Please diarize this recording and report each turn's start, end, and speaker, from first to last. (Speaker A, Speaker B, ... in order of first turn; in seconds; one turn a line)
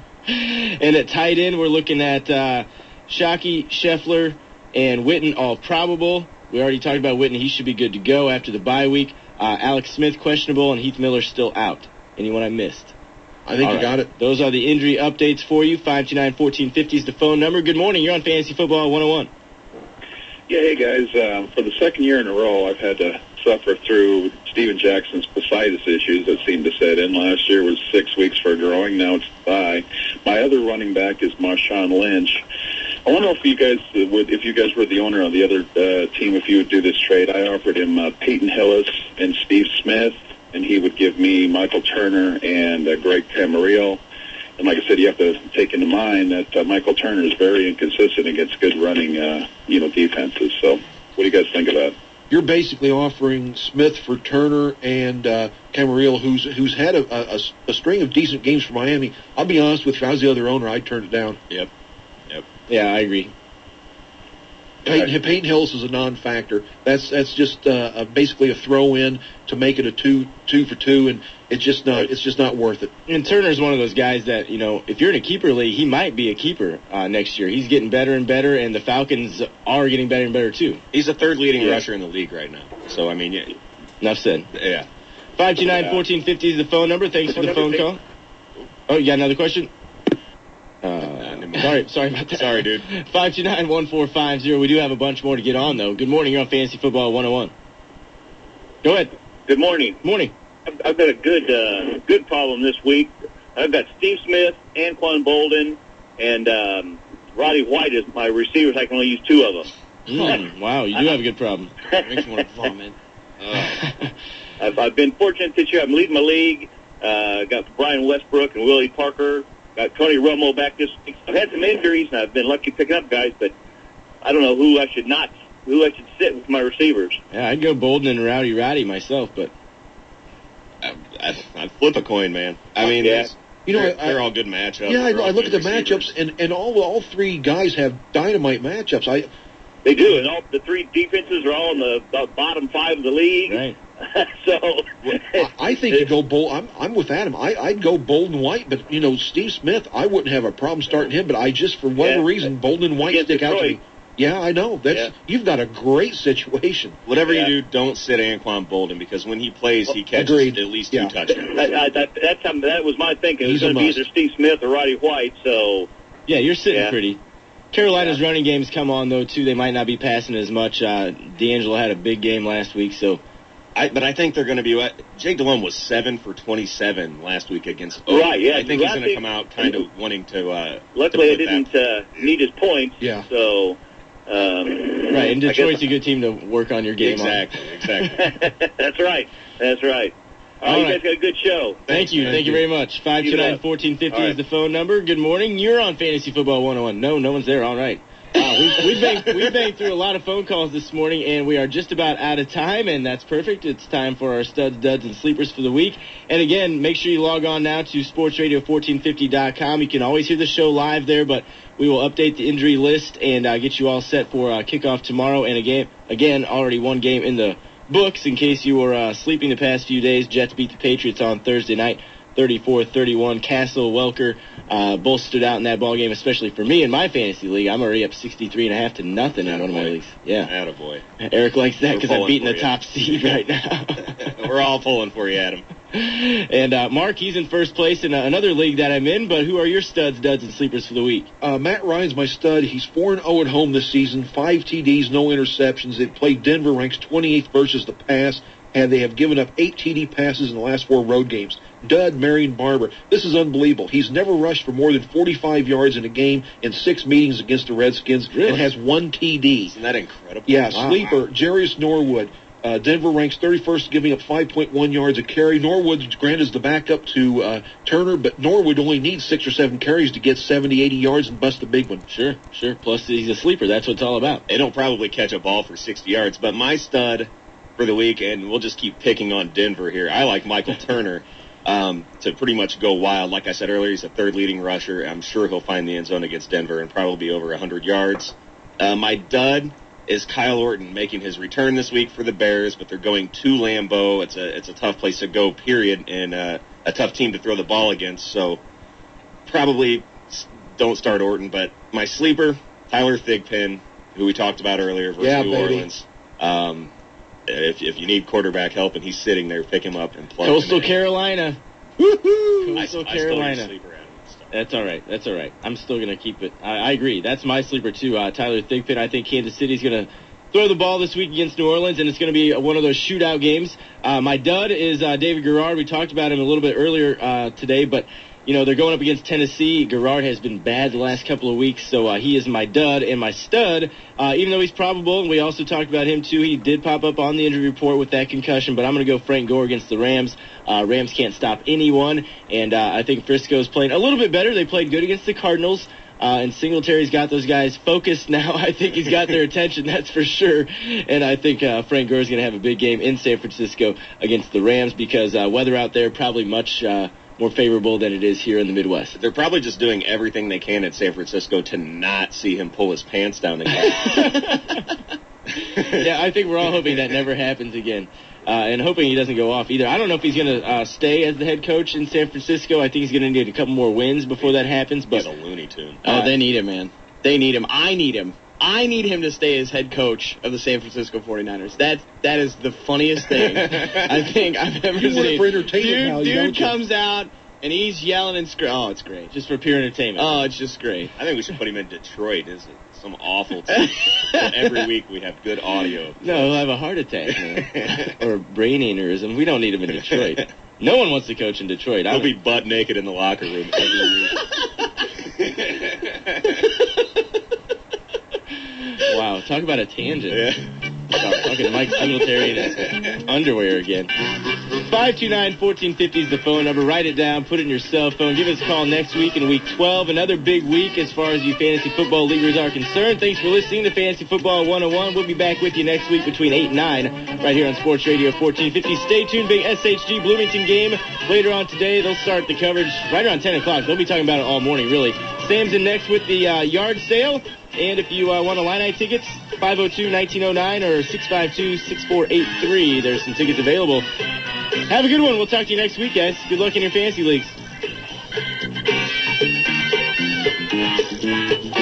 Speaker A: 0.3-12.9
Speaker B: 13.5-14.1
Speaker A: 13.6-19.3
Speaker C: 20.5-32.4
Speaker C: 33.1-44.0
Speaker C: 44.6-51.9
Speaker B: 52.3-61.4
Speaker A: 62.7-63.3
Speaker D: 64.9-65.1
Speaker B: 64.9-72.9
Speaker A: 73.1-80.8
Speaker D: 80.9-83.6
Speaker E: 81.6-81.8
Speaker A: 84.0-84.5
Speaker D: 84.5-84.9
Speaker A: 85.4-88.0
Speaker E: 87.4-87.9
Speaker A: 88.9-89.7
Speaker A: 90.8-97.5
Speaker D: 91.0-92.9
Speaker A: 98.8-99.1
Speaker E: 99.5-100.0
Speaker A: 100.0-100.3
Speaker E: 100.7-110.4
Speaker A: 110.1-111.7
Speaker E: 111.9-112.7
Speaker D: 112.1-113.8
Speaker A: 113.8-114.1
Speaker E: 114.6-123.5
Speaker E: 124.2-127.2
Speaker A: 127.3-129.5
Speaker D: 130.8-136.1
Speaker E: 132.8-133.3
Speaker B: 133.7-134.2
Speaker B: 134.9-139.3
Speaker E: 139.8-146.1
Speaker A: 143.5-143.8
Speaker B: 145.3-157.0
Speaker E: 152.0-152.5
Speaker E: 153.0-153.8
Speaker D: 157.1-161.6
Speaker E: 157.1-157.5
Speaker B: 160.1-161.1
Speaker E: 161.3-165.9
Speaker B: 163.4-164.1
Speaker A: 166.3-167.2
Speaker E: 166.7-166.9
Speaker A: 167.7-173.2
Speaker D: 173.8-182.3
Speaker E: 178.1-179.8
Speaker E: 180.9-185.9
Speaker B: 183.0-183.3
Speaker A: 185.1-187.5
Speaker D: 187.0-188.3
Speaker E: 188.2-191.8
Speaker A: 190.7-191.0
Speaker D: 191.9-192.5
Speaker A: 191.9-230.5
Speaker B: 192.3-192.6
Speaker E: 193.2-193.6
Speaker D: 229.4-231.0
Speaker A: 231.2-234.3
Speaker D: 231.9-233.3
Speaker D: 234.1-235.7
Speaker A: 235.9-241.3
Speaker B: 241.4-259.7
Speaker A: 258.3-258.6
Speaker D: 259.7-261.2
Speaker B: 260.5-272.0
Speaker A: 272.1-274.4
Speaker D: 274.5-298.6
Speaker D: 299.5-306.9
Speaker B: 305.2-305.9
Speaker D: 307.5-310.9
Speaker A: 310.4-311.6
Speaker B: 312.0-312.7
Speaker A: 312.6-313.7
Speaker D: 312.8-314.5
Speaker A: 314.5-359.2
Speaker D: 359.2-364.6
Speaker A: 363.8-364.8
Speaker D: 365.6-366.0
Speaker A: 365.8-375.3
Speaker D: 375.1-376.0
Speaker F: 376.0-389.4
Speaker D: 383.7-384.0
Speaker B: 384.9-386.8
Speaker A: 389.3-390.5
Speaker F: 390.2-391.1
Speaker D: 391.2-396.7
Speaker A: 396.2-402.3
Speaker D: 397.5-398.2
Speaker D: 402.1-404.4
Speaker D: 405.3-406.6
Speaker A: 409.0-410.4
Speaker D: 410.3-412.9
Speaker A: 411.4-414.1
Speaker A: 414.7-444.1
Speaker A: 444.9-447.6